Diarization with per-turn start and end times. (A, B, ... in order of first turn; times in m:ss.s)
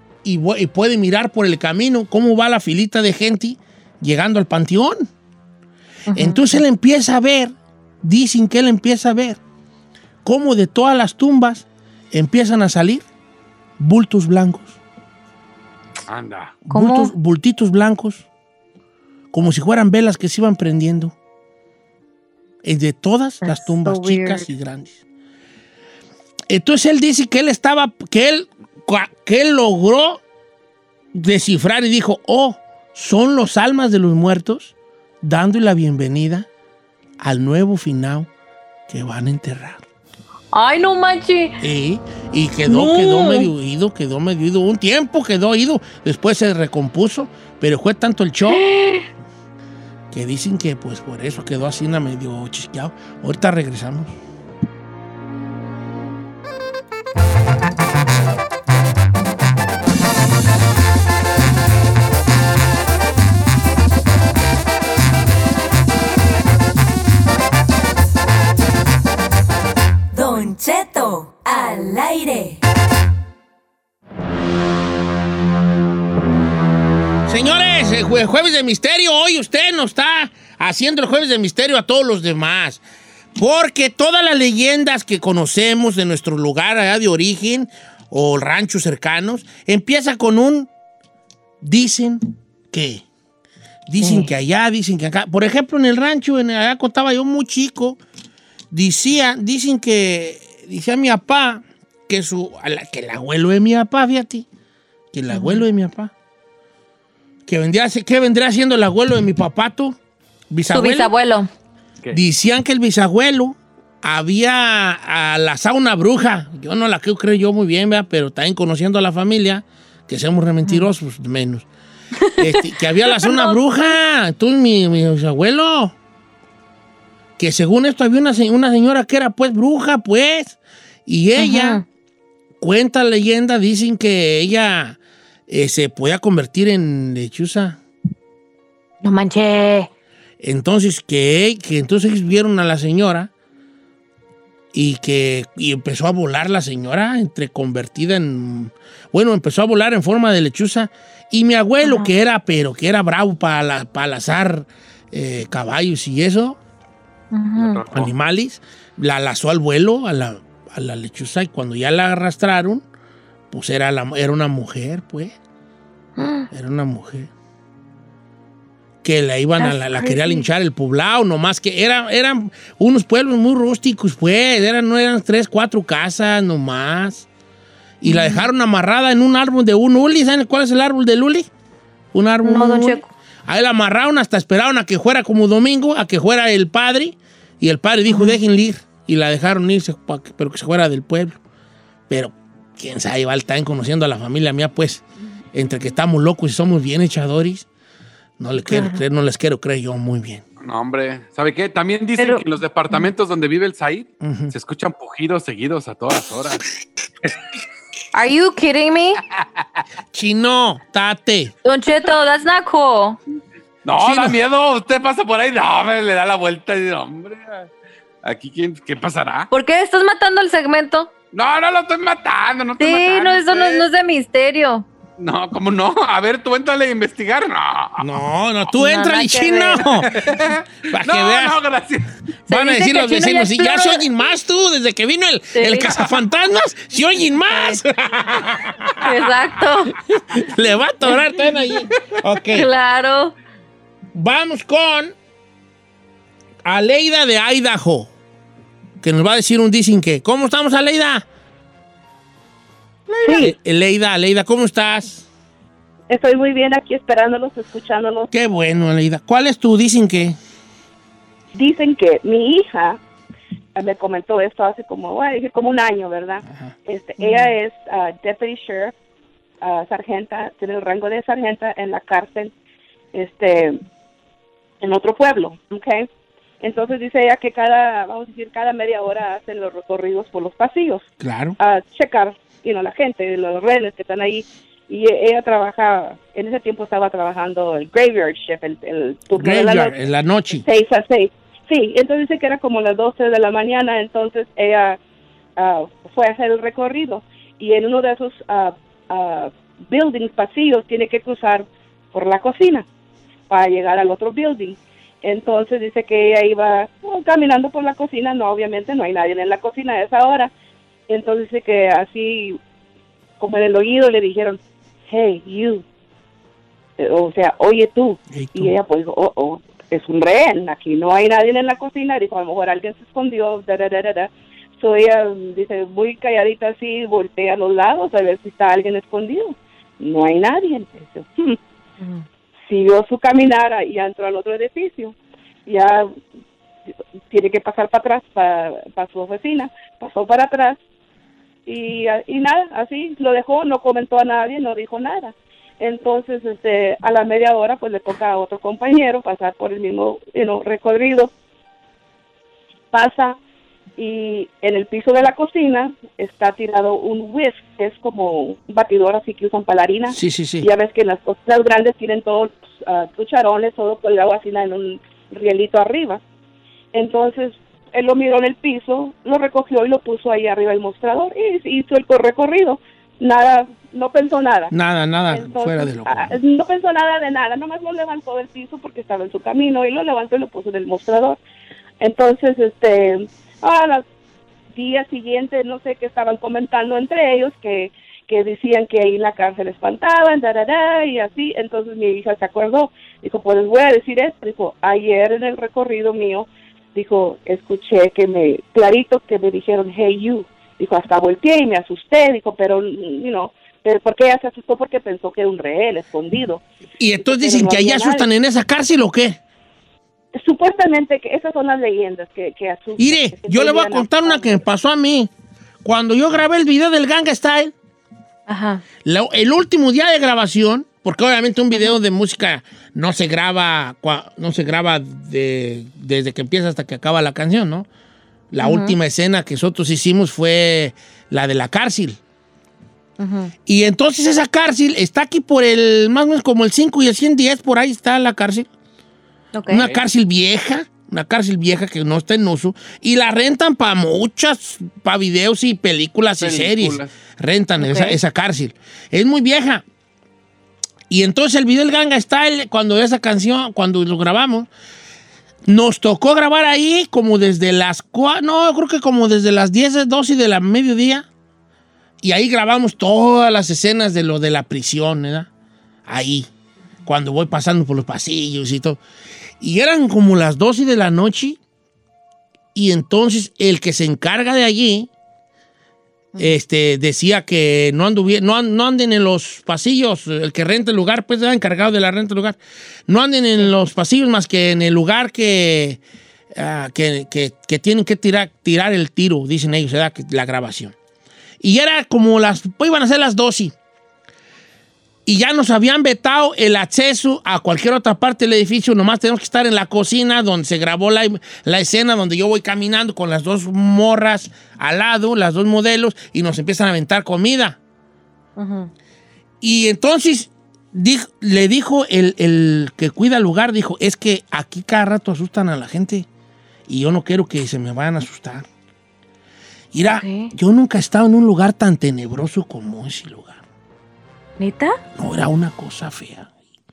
0:00.2-0:05.1 A
0:06.1-0:06.6 B
0:06.1-0:09.4 A
0:10.2-0:13.0 A
0:13.8-0:14.8 A
0:16.1-0:16.6 C
0:16.6-0:18.3 A
0:16.7-0:17.1 B
0:19.3-0:21.2 A
0:22.6-0:25.0 A
0:23.4-0:24.4 B
0:26.5-0:30.2 A
0:31.1-0:36.5 A
0:37.2-0:38.3 A
0:38.9-0:39.8 A
0:40.5-0:41.6 B
0:41.6-0:48.6 A
0:42.7-0:43.5 B
0:48.5-0:49.1 B
0:50.1-0:54.1 A
1:10.1-1:12.6 D
1:17.3-1:22.8 A
1:23.4-1:30.7 A
1:31.6-1:33.0 A
1:33.9-1:38.0 A
1:34.0-1:34.3 B
1:38.7-1:44.5 A
1:45.1-1:46.1 A
1:45.3-1:45.6 B
1:47.5-1:50.0 A
1:50.5-1:51.1 A
1:50.7-1:51.5 B
1:52.1-2:01.7 A
2:02.4-2:05.9 A
2:03.1-2:03.6 B
2:07.4-2:11.8 A
2:11.4-2:11.8 B
2:12.6-2:17.8 A
2:19.0-2:19.9 B
2:20.4-2:23.3 A
2:24.7-2:36.6 A
2:31.8-2:32.1 B
2:37.3-2:37.8 B
2:37.6-2:38.1 C
2:37.9-2:42.8 A
2:43.5-2:45.4 A
2:46.2-2:46.5 B
2:46.5-2:47.3 A
2:49.0-2:57.3 A
2:49.6-2:50.5 B
2:58.0-3:01.5 A
2:58.0-2:58.5 B
3:02.1-3:11.4 A
3:02.4-3:03.1 B
3:08.1-3:08.4 B
3:12.1-3:17.7 A
3:18.4-3:20.4 A
3:18.6-3:19.0 B
3:20.6-3:26.6 C
3:22.2-3:22.4 B
3:24.2-3:24.5 A
3:28.1-3:29.2 B
3:30.1-3:31.5 A
3:31.6-3:33.2 B
3:33.8-3:37.7 C
3:34.0-3:34.4 A
3:38.2-3:39.5 C
3:39.5-3:41.1 B
3:41.3-3:43.9 C
3:42.8-3:44.9 B
3:45.2-3:48.0 C
3:48.0-3:50.2 A
3:48.7-3:49.8 B
3:50.1-3:52.1 C
3:50.9-3:51.6 A
3:52.5-3:54.0 B
3:52.5-3:59.1 A
3:55.6-3:55.9 B
3:59.0-4:00.0 B
4:00.1-4:02.7 A
4:02.5-4:03.3 B
4:04.1-4:05.2 A
4:06.6-4:08.1 A
4:09.0-4:11.3 A
4:13.2-4:13.5 B
4:13.3-4:15.3 A
4:16.1-4:18.3 E
4:18.3-4:20.4 A
4:21.5-4:23.0 E
4:23.8-4:28.9 E
4:27.2-4:27.5 B
4:29.6-4:32.5 E
4:33.1-4:33.8 E
4:34.8-4:36.1 E
4:36.6-4:41.1 E
4:41.2-4:41.6 A
4:41.6-4:49.9 E
4:49.3-4:50.6 A
4:50.5-4:55.0 E
4:55.6-5:02.9 E
5:03.5-5:10.5 E
5:11.1-5:12.6 E
5:13.4-5:15.8 E
5:17.0-5:31.6 E
5:18.3-5:18.7 A
5:32.7-5:35.2 E
5:35.7-5:36.1 E
5:37.3-5:40.8 E
5:41.7-5:51.3 E
5:52.9-5:53.4 E
5:54.0-6:06.2 E
6:00.1-6:00.7 A
6:06.9-6:14.7 E
6:14.7-6:16.3 A
6:15.3-6:21.4 E
6:22.0-6:24.0 E
6:24.7-6:46.6 E
6:47.0-6:49.4 A
6:47.2-6:48.3 E
6:50.4-6:54.7 E
6:53.0-6:55.3 A
6:55.8-6:57.7 A
6:58.5-6:58.8 B
6:59.0-7:07.9 A
7:08.5-7:12.2 A
7:08.6-7:09.0 B
7:13.2-7:13.5 B
7:13.7-7:18.7 A
7:19.5-7:19.9 B
7:19.7-7:29.8 A
7:26.4-7:27.1 C
7:27.8-7:28.2 B
7:31.1-7:34.7 A
7:35.7-7:41.3 A
7:42.2-7:45.5 A
7:46.1-7:46.5 A
7:47.0-7:49.0 A
7:49.6-7:51.6 A
7:52.8-7:55.1 A
7:56.4-8:06.0 A
8:06.5-8:11.0 A
8:11.6-8:13.7 A
8:15.3-8:27.8 A
8:28.6-8:28.9 B
8:29.6-8:36.3 A
8:36.9-8:38.7 A
8:39.9-8:43.6 A
8:40.1-8:40.5 B
8:44.6-8:45.0 B
8:45.2-8:46.5 A